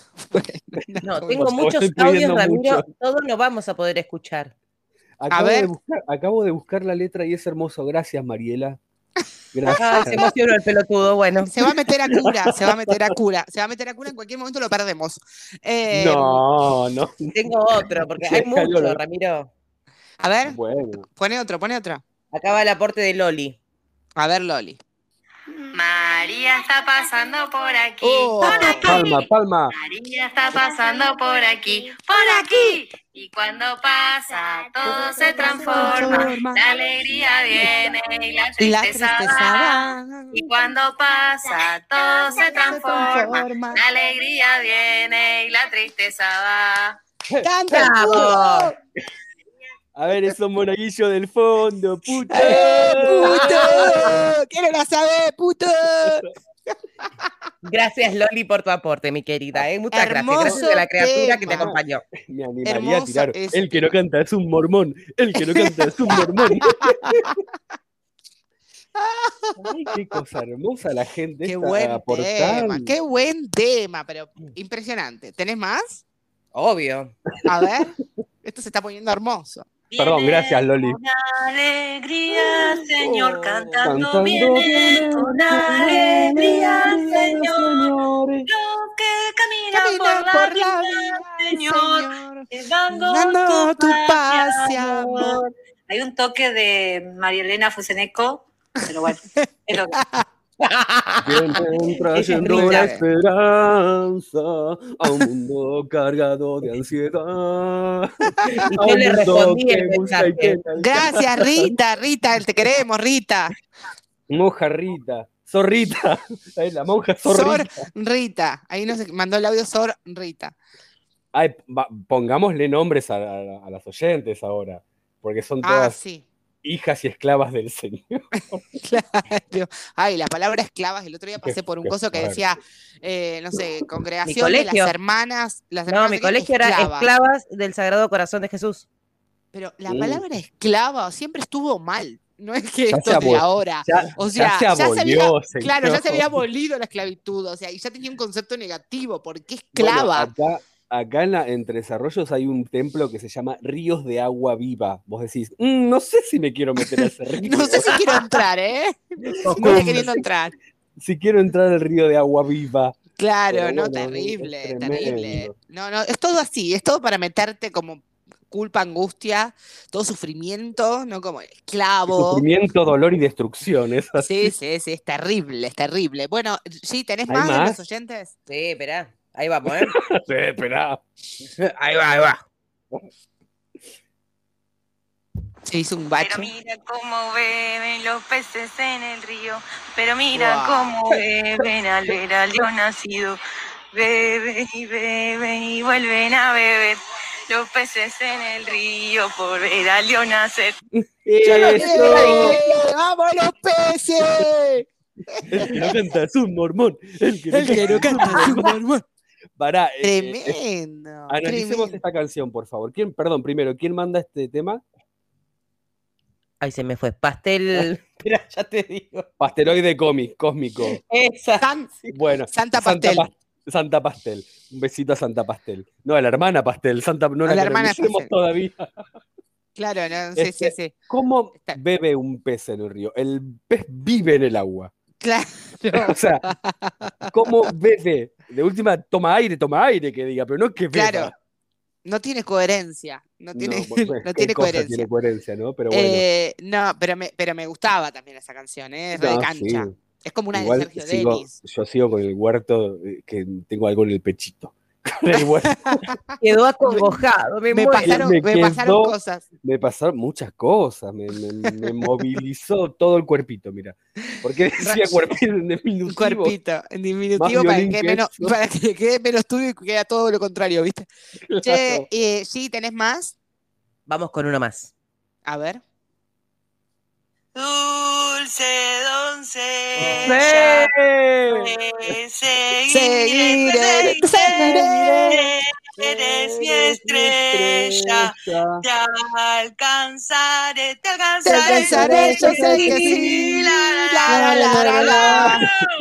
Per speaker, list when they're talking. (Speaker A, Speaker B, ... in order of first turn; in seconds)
Speaker A: 0.3-1.5, 5.3-5.7, 9.7-10.3, 11.4-16.4, 20.2-20.6, 21.1-22.0, 24.2-24.8, 28.0-29.0, 34.9-36.6, 38.6-40.5, 42.4-43.8, 47.4-48.7, 52.3-56.3, 59.9-61.7, 62.6-63.9, 65.4-67.3, 69.0-69.9, 71.4-76.0, 77.5-79.7, 89.7-95.4, 99.4-100.2, 102.4-103.0, 108.4-108.7, 110.8-113.5, 117.3-120.5, 125.6-126.3, 128.8-137.1, 139.5-150.3, 157.0-160.6, 163.2-172.4, 174.2-178.3, 185.7-186.5, 190.3-191.0, 201.6-206.0, 207.5-209.0, 210.0-212.0, 221.6-223.3, 227.4-228.3, 229.8-230.9, 235.2-237.7, 240.9-241.3, 242.1-245.1, 245.9-251.6, 255.3-256.1, 256.9-257.2, 257.7-259.4, 261.7-261.9, 264.8-265.2, 266.1-271.1, 271.6-273.4, 275.5-275.8, 282.9-285.5, 291.4-295.6
Speaker B: 1.0-4.5, 9.7-11.5, 17.4-19.5, 22.3-23.6, 35.8-36.2, 47.7-48.7, 53.3-54.1, 57.6-62.0, 76.5-77.1, 83.0-83.8, 100.6-101.6, 102.2-102.9, 108.7-110.6, 134.2-134.9, 135.9-138.9, 159.3-160.1, 178.5-179.9, 201.4-202.7, 216.6-219.3, 221.0-222.1, 256.4-258.3, 274.1-274.9, 280.1-280.8, 291.4-293.7, 294.2-295.6
Speaker C: 1.3-2.9, 5.2-8.8, 9.5-10.2, 12.1-13.2, 15.9-19.0, 20.5-21.1, 28.8-29.7, 50.0-54.1, 61.4-67.4, 69.6-72.9, 80.0-81.0, 83.8-88.5, 101.2-111.7, 114.3-117.7, 121.3-126.0, 126.6-128.3, 131.4-132.4, 139.9-140.2, 142.9-146.4, 149.7-158.0, 159.5-160.2, 161.0-163.0, 163.5-165.5, 172.1-174.5, 177.3-177.8, 179.7-181.0, 181.6-182.4, 201.0-202.6, 205.5-208.8, 209.6-210.6, 211.3-214.8, 219.4-221.0, 222.1-229.0, 230.4-234.9, 235.9-236.5, 237.3-241.3, 243.6-246.2, 249.1-249.9, 250.5-256.2, 258.0-266.6, 267.4-268.6, 271.5-272.1, 280.0-282.1, 284.6-285.4, 286.0-288.8, 291.7-293.7, 294.3-295.7
Speaker D: 25.7-47.0, 79.9-87.9, 88.5-100.0, 186.2-193.4, 193.9-200.8, 277.6-280.9, 281.5-292.4, 293.5-294.2